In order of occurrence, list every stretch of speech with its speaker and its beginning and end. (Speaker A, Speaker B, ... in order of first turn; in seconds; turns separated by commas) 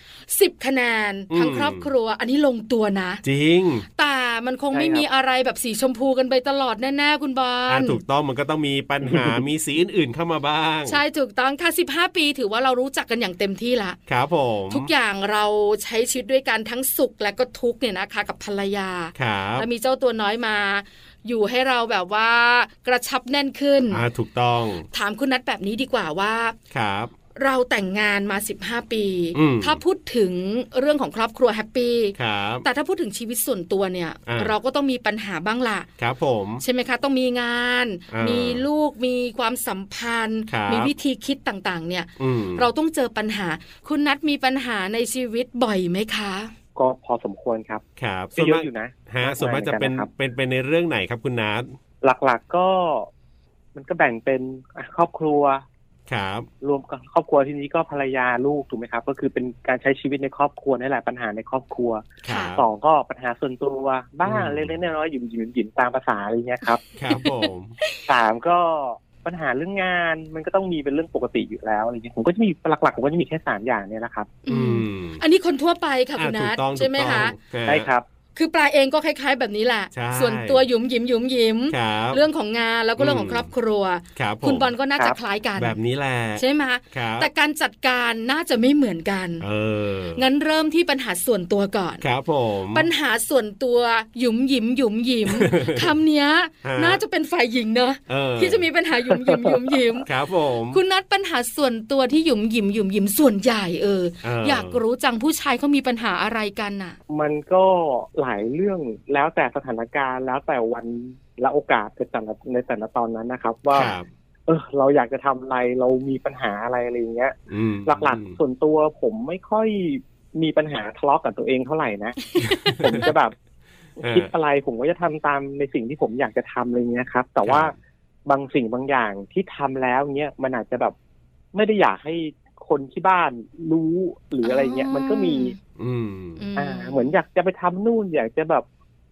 Speaker A: 0.3-3.2, Speaker B: 1.3-1.9, Speaker B: 3.2-3.9, Speaker A: 4.0-8.0, Speaker C: 4.7-5.0, Speaker B: 7.7-11.0, Speaker C: 9.0-9.4, Speaker A: 10.9-14.0, Speaker B: 14.1-14.9, Speaker A: 14.7-24.0, Speaker B: 19.2-19.7, Speaker B: 23.9-24.9, Speaker A: 24.9-26.6, Speaker B: 26.7-27.1, Speaker A: 27.4-35.9, Speaker B: 29.3-29.8, Speaker B: 32.1-32.7, Speaker B: 34.3-34.5, Speaker B: 36.0-36.6, Speaker A: 36.6-46.5, Speaker B: 38.1-38.6, Speaker B: 40.5-40.9, Speaker B: 42.2-42.7, Speaker C: 46.8-47.8, Speaker B: 48.0-51.7, Speaker C: 48.4-50.1, Speaker C: 52.0-53.1, Speaker C: 53.8-55.6, Speaker B: 56.1-56.5, Speaker C: 56.6-66.8, Speaker B: 62.2-62.6, Speaker A: 62.3-62.6, Speaker B: 64.2-64.8, Speaker B: 67.0-67.8, Speaker A: 67.1-68.0, Speaker C: 68.1-74.4, Speaker A: 74.5-77.3, Speaker B: 74.5-75.2, Speaker B: 76.2-77.9, Speaker C: 77.7-78.1, Speaker A: 78.3-85.8, Speaker B: 79.9-80.7, Speaker B: 81.7-82.2, Speaker B: 83.0-83.5, Speaker B: 84.2-84.7, Speaker B: 85.6-87.3, Speaker A: 86.4-89.5, Speaker B: 89.4-90.2, Speaker A: 90.2-92.0, Speaker B: 92.0-92.9, Speaker A: 92.7-100.1, Speaker B: 95.3-95.9, Speaker B: 96.6-97.0, Speaker B: 98.1-98.7, Speaker B: 100.1-100.8, Speaker A: 100.7-107.0, Speaker B: 104.2-104.8, Speaker C: 107.1-113.9, Speaker A: 113.7-114.0, Speaker B: 113.7-114.1, Speaker C: 114.5-123.3, Speaker B: 117.5-118.4, Speaker A: 122.4-123.1, Speaker B: 122.4-123.1, Speaker C: 124.0-127.7, Speaker B: 124.0-124.3, Speaker B: 127.4-127.8, Speaker C: 128.3-130.9, Speaker C: 131.5-135.5, Speaker A: 134.4-135.6, Speaker B: 135.8-136.4, Speaker A: 136.4-137.1, Speaker C: 136.6-138.7